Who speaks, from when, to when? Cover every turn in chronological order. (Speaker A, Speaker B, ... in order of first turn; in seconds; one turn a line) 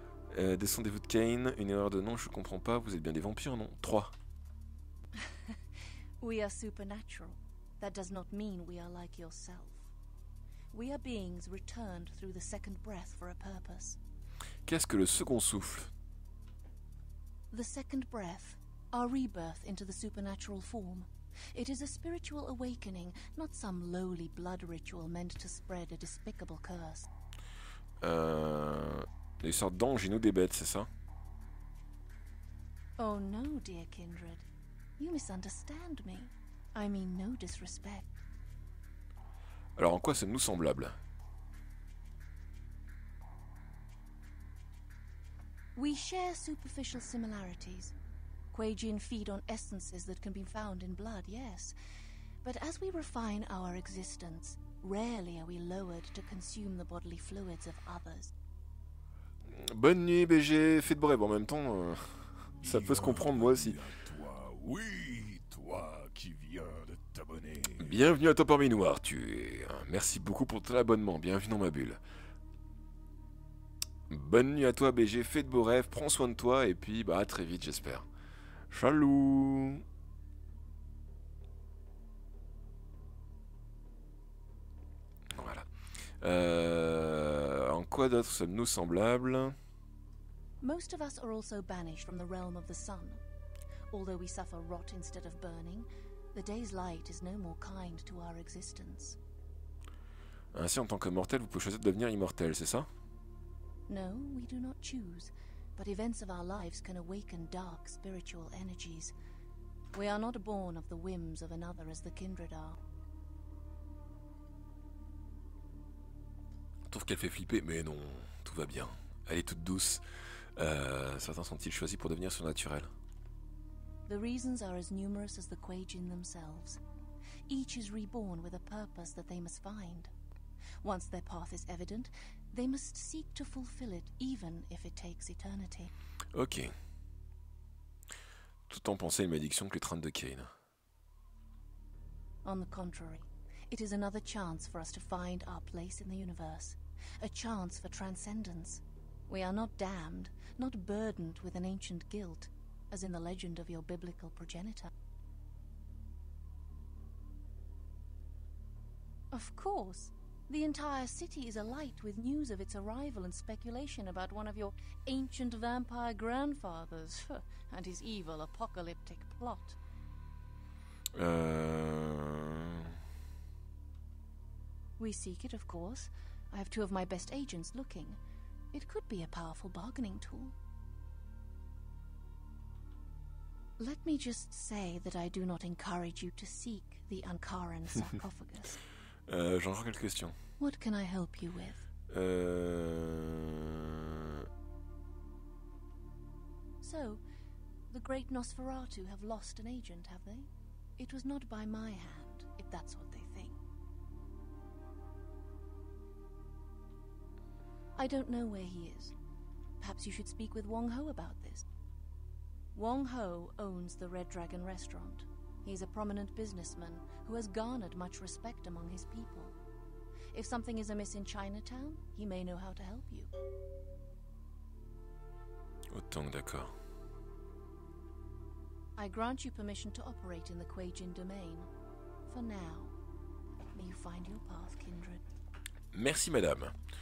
Speaker A: 0.3-4.1
Speaker B: 6.2-9.9
Speaker B: 10.7-14.0
Speaker A: 14.7-15.9
Speaker B: 17.5-27.1
Speaker A: 28.0-30.9
Speaker B: 33.0-34.5
Speaker B: 35.0-38.2
Speaker A: 39.8-41.0
Speaker B: 45.8-47.9
Speaker B: 48.5-51.8
Speaker B: 52.4-58.3
Speaker A: 59.5-63.8
Speaker C: 62.6-68.0
Speaker A: 67.8-72.0
Speaker A: 74.1-78.1
Speaker A: 78.7-79.8
Speaker A: 85.3-85.7
Speaker A: 86.2-89.6
Speaker B: 90.6-93.2
Speaker B: 93.9-99.2
Speaker A: 100.5-102.9
Speaker B: 103.9-109.1
Speaker B: 109.9-112.8
Speaker A: 116.9-120.0
Speaker A: 120.6-122.9
Speaker B: 124.1-126.8
Speaker B: 127.5-130.1
Speaker B: 130.8-135.9
Speaker A: 136.3-136.7
Speaker A: 138.7-140.5
Speaker B: 142.4-154.9
Speaker B: 159.3-169.8
Speaker A: 171.2-173.0
Speaker B: 175.0-178.2
Speaker B: 178.7-180.6
Speaker B: 183.8-188.8
Speaker A: 189.3-190.4
Speaker B: 190.6-191.9
Speaker A: 192.1-194.5
Speaker B: 196.8-197.2
Speaker B: 197.9-203.6
Speaker B: 208.0-209.1
Speaker B: 209.8-211.7
Speaker B: 212.8-219.6
Speaker B: 220.3-223.3
Speaker A: 225.9-226.7
Speaker B: 229.0-231.7
Speaker B: 232.3-233.0
Speaker B: 233.7-235.2
Speaker A: 235.9-236.7